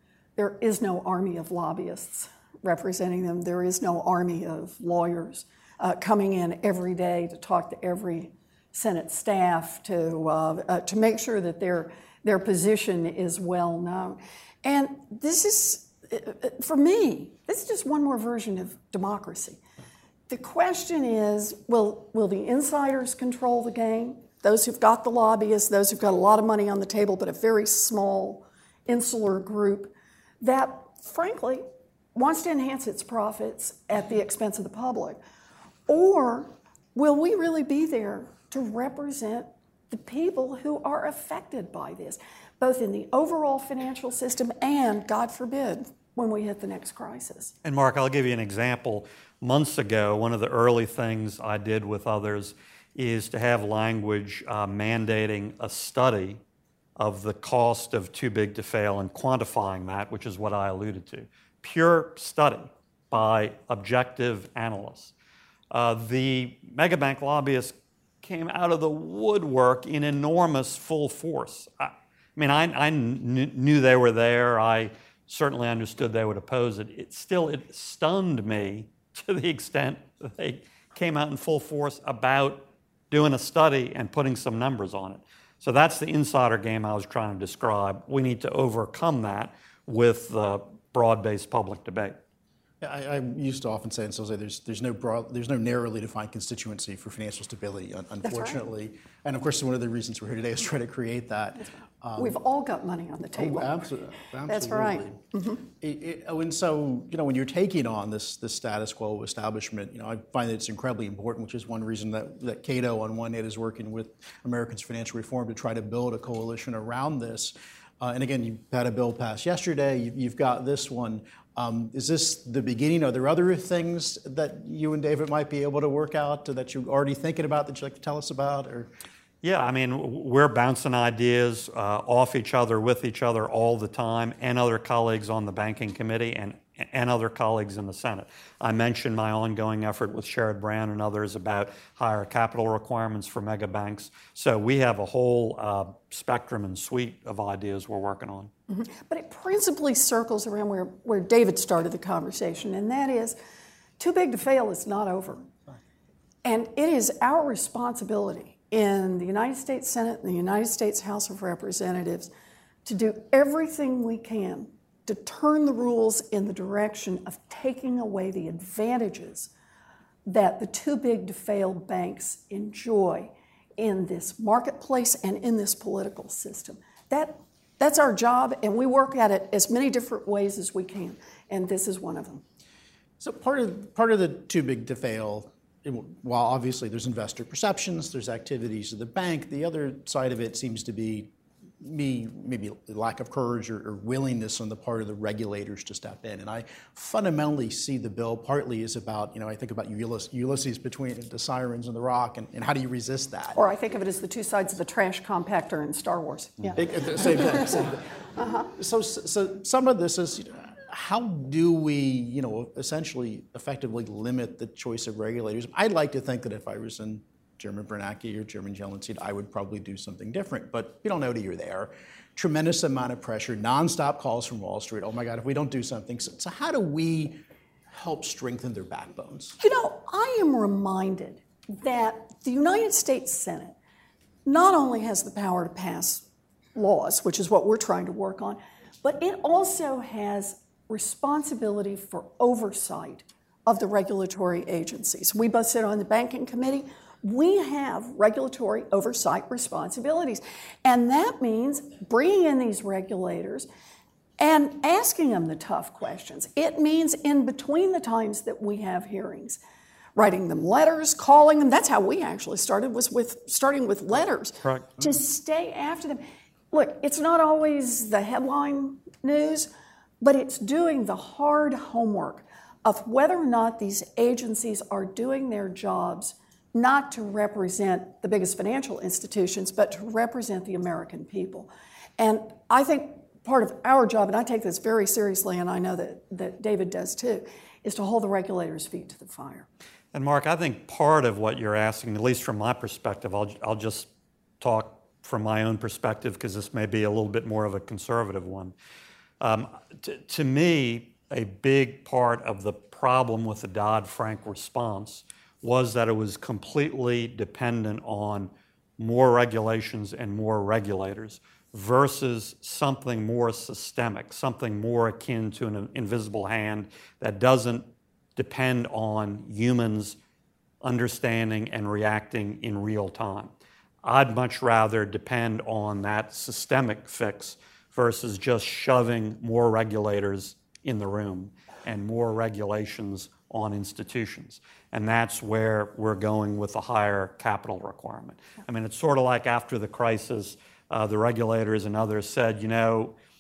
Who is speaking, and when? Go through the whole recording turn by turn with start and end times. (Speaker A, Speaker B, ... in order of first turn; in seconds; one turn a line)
Speaker A: 0.4-19.6
Speaker A: 20.3-35.2
Speaker A: 35.9-47.5
Speaker B: 47.6-56.4
Speaker B: 57.0-65.1
Speaker B: 65.7-92.2
Speaker C: 92.8-102.4
Speaker A: 98.2-98.6
Speaker A: 102.2-103.8
Speaker C: 103.3-128.9
Speaker A: 104.5-105.6
Speaker B: 129.4-148.5
Speaker A: 148.7-153.4
Speaker A: 154.0-155.5
Speaker A: 156.4-162.3
Speaker A: 162.8-169.5
Speaker A: 170.3-182.4
Speaker C: 183.2-203.6
Speaker A: 203.6-207.7
Speaker C: 206.8-208.1
Speaker A: 208.4-208.7
Speaker C: 208.7-229.6
Speaker A: 229.6-233.8
Speaker A: 234.5-253.7
Speaker A: 254.4-259.6
Speaker A: 260.2-269.7
Speaker B: 264.6-264.9
Speaker A: 270.2-289.7
Speaker B: 290.1-294.1
Speaker B: 294.6-298.7
Speaker B: 299.4-320.2
Speaker B: 320.8-323.5
Speaker B: 324.0-343.1